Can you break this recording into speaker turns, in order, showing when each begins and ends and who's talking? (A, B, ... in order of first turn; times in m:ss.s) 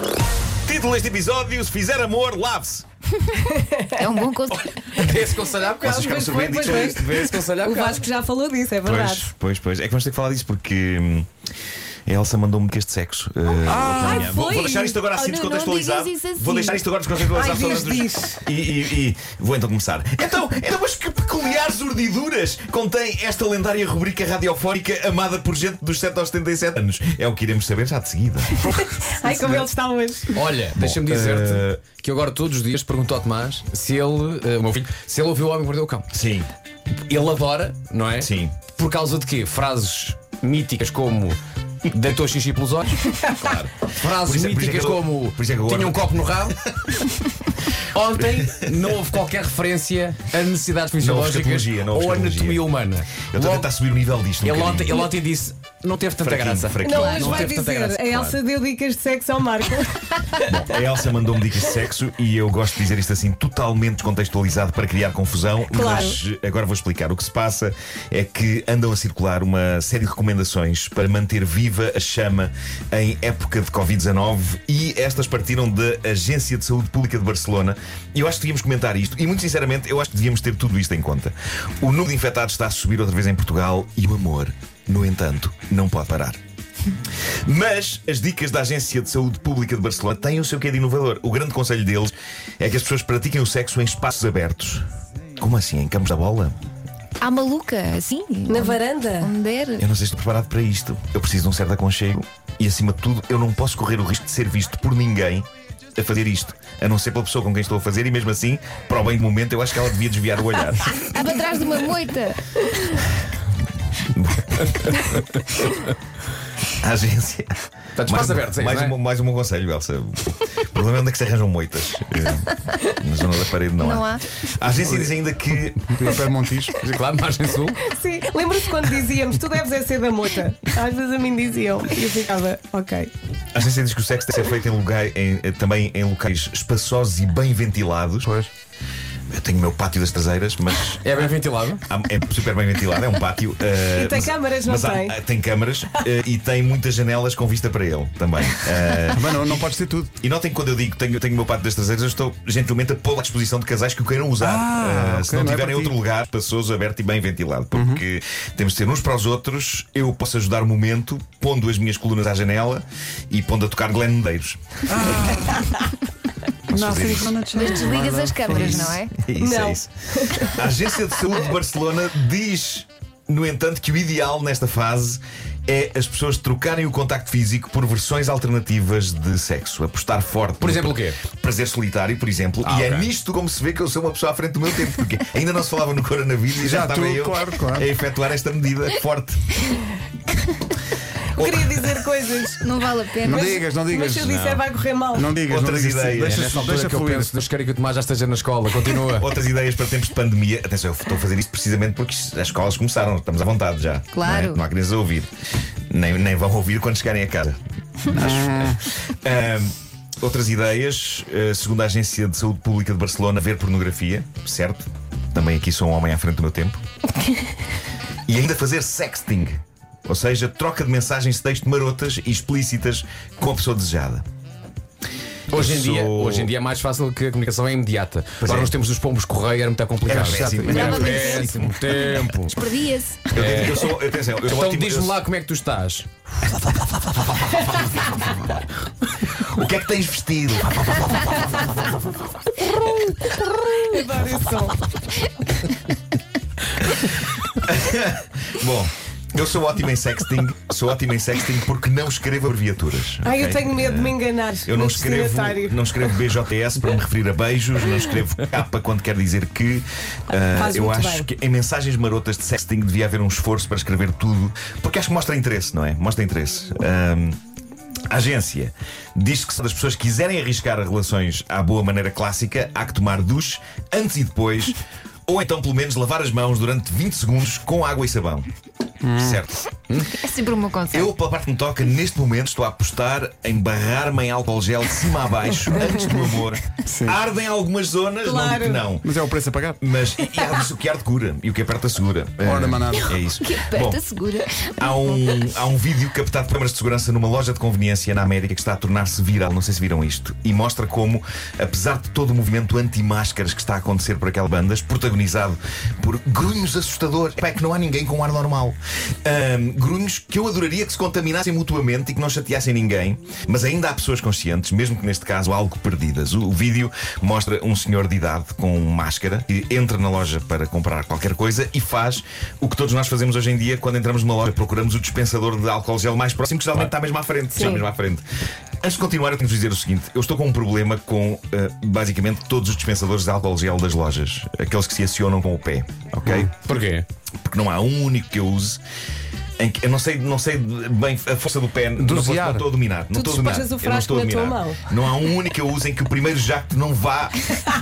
0:00.6-0:02.8 A
0:03.3-0:04.1 B
0:03.9-0:04.7 C
0:04.5-0:08.0 D
0:05.8-0:09.3 B
0:05.8-0:07.4 A
0:08.8-0:11.3 A
0:12.1-0:28.8 A
0:13.7-0:14.0 E
0:13.8-0:15.1 B
0:15.1-0:16.8 C
0:17.3-0:18.4 B
0:28.6-0:30.4 B
0:29.3-0:29.7 D
0:30.3-0:36.0 D
0:30.7-0:31.8 A
0:36.1-0:36.5 A
0:37.1-0:43.2 D
0:38.2-0:38.6 A
0:43.3-0:46.9 A
0:43.9-0:46.6 D
0:47.9-0:53.7 D
0:48.2-0:48.8 A
0:51.0-0:52.6 A
0:53.3-0:55.0 A
0:54.4-0:58.4 D
0:56.2-0:57.5 A
0:56.8-1:00.6 B
1:00.4-1:26.4 A
1:05.7-1:06.2 B
1:27.4-1:34.8 A
1:35.4-1:36.6 A
1:37.2-1:39.8 C
1:38.5-1:39.3 B
1:39.8-1:51.0 A
1:51.0-1:53.1 C
1:54.1-1:55.1 A
1:56.8-1:57.5 A
1:58.0-1:58.9 D
1:58.0-2:06.2 A
2:03.8-2:04.2 C
2:04.8-2:05.1 E
2:05.8-2:06.8 E
2:06.8-2:07.8 D
2:07.8-2:13.1 B
2:13.5-2:18.3 A
2:19.3-2:21.0 A
2:21.0-2:21.8 D
2:21.9-2:29.6 A
2:23.8-2:25.2 B
2:29.1-2:30.2 E
2:30.2-2:45.4 A
2:34.4-2:35.9 E
2:37.7-2:38.0 E
2:44.9-2:45.8 E
2:46.7-2:48.9 E
2:46.7-2:47.4 A
2:47.5-2:49.2 C
2:48.5-3:09.5 A
2:49.4-2:50.6 B
3:00.6-3:01.2 D
3:02.6-3:03.1 D
3:06.6-3:07.9 E
3:11.3-3:12.7 B
3:11.4-3:11.9 A
3:12.6-3:13.6 C
3:13.2-3:17.3 E
3:13.2-3:15.3 B
3:15.4-3:16.5 A
3:16.2-3:19.3 D
3:19.2-3:25.3 A
3:24.1-3:24.6 C
3:25.9-3:36.8 A
3:28.1-3:28.8 E
3:38.3-3:44.2 A
3:45.5-3:52.5 D
3:45.5-3:46.5 A
3:48.4-3:48.7 A
3:50.0-3:51.8 A
3:50.1-3:51.2 E
3:50.7-3:53.3 C
3:53.3-3:55.2 A
3:53.4-3:53.9 D
3:54.4-3:56.1 D
3:57.3-3:58.4 A
3:59.3-4:01.9 A
4:02.7-4:04.8 B
4:07.0-4:27.4 A
4:13.2-4:15.8 B
4:20.5-4:21.3 B
4:28.1-4:38.5 A
4:39.0-4:39.4 E
4:39.1-4:39.6 A
4:39.9-4:40.2 D
4:40.1-4:41.1 C
4:40.9-4:49.0 A
4:46.8-4:47.2 E
4:48.2-4:48.9 B
4:49.0-4:49.8 E
4:49.8-4:54.0 A
4:52.4-4:53.2 E
4:53.4-4:55.4 C
4:54.8-5:28.2 A
5:28.8-5:36.5 A
5:36.2-5:36.5 E
5:36.6-5:37.0 D
5:37.4-5:38.8 A
5:39.6-5:47.5 A
5:42.0-5:42.6 E
5:43.1-5:44.8 B